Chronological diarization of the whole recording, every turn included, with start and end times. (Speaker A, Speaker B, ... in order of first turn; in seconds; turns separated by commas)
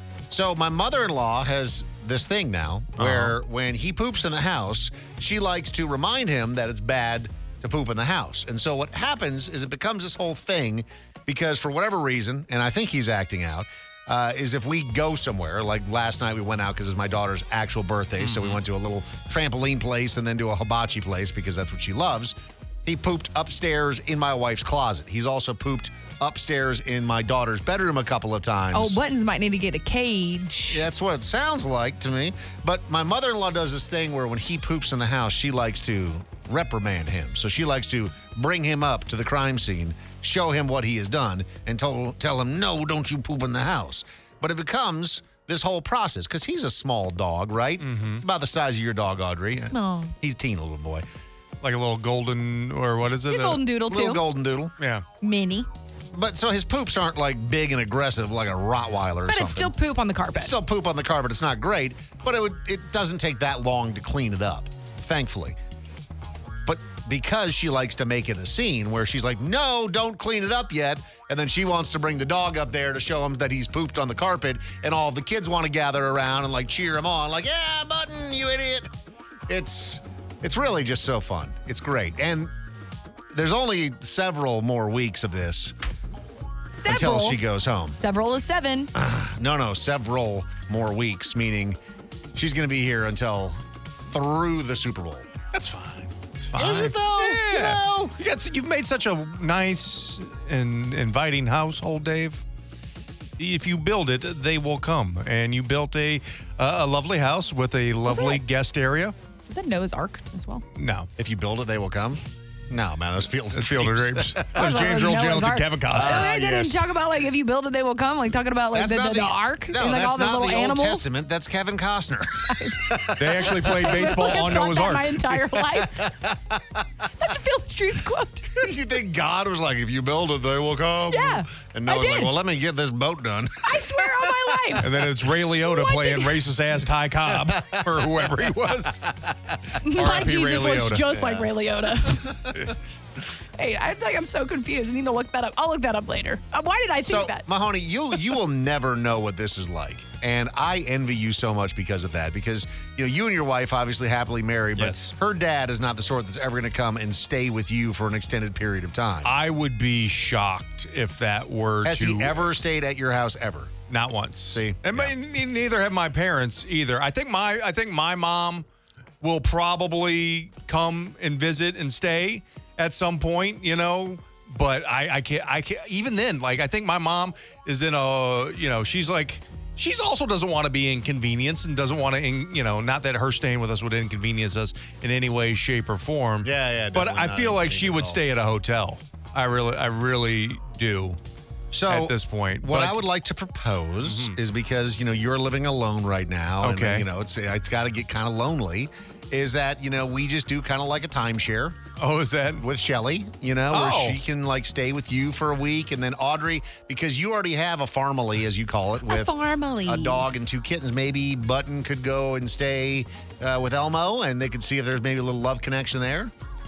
Speaker A: 0.3-29.0, Speaker B: 3.0-3.3, Speaker C: 28.7-30.8, Speaker A: 30.7-51.0, Speaker B: 47.8-48.2, Speaker C: 49.7-50.1, Speaker B: 51.6-53.6, Speaker C: 53.3-54.2, Speaker A: 53.9-54.7, Speaker B: 54.8-55.0, Speaker C: 55.2-55.7, Speaker A: 56.1-59.7, Speaker C: 59.3-60.5, Speaker A: 60.3-65.6, Speaker A: 66.7-78.9, Speaker A: 79.5-82.5, Speaker A: 83.3-85.7, Speaker C: 86.8-87.4, Speaker A: 86.9-88.0, Speaker C: 88.0-88.9, Speaker A: 88.9-91.8, Speaker A: 92.3-95.3, Speaker B: 95.5-102.4, Speaker A: 96.5-98.1, Speaker B: 103.4-109.1, Speaker C: 108.0-108.4, Speaker C: 109.4-110.6, Speaker B: 110.7-111.1, Speaker A: 111.2-114.8, Speaker B: 113.5-116.7, Speaker C: 114.5-121.0, Speaker A: 115.9-116.8, Speaker A: 118.7-124.3, Speaker C: 122.5-122.8, Speaker B: 123.2-125.4, Speaker C: 123.8-126.1, Speaker A: 125.7-126.6, Speaker C: 127.2-128.6, Speaker A: 128.5-134.7, Speaker C: 131.1-132.3, Speaker C: 133.6-134.9, Speaker B: 134.8-139.1, Speaker C: 135.6-136.4, Speaker A: 137.5-137.8, Speaker C: 139.8-142.4, Speaker B: 139.9-141.1, Speaker A: 141.1-141.5, Speaker C: 143.6-147.4, Speaker A: 147.0-159.3, Speaker B: 154.8-155.1, Speaker B: 159.2-162.4, Speaker A: 161.8-163.7, Speaker B: 163.9-168.7, Speaker A: 164.5-165.1, Speaker B: 169.2-191.2, Speaker A: 186.4-188.2, Speaker A: 191.7-201.8, Speaker B: 191.9-193.0, Speaker B: 194.0-194.4, Speaker B: 196.6-197.1, Speaker B: 202.0-202.6, Speaker A: 202.6-216.3, Speaker B: 203.7-204.2, Speaker C: 209.1-210.2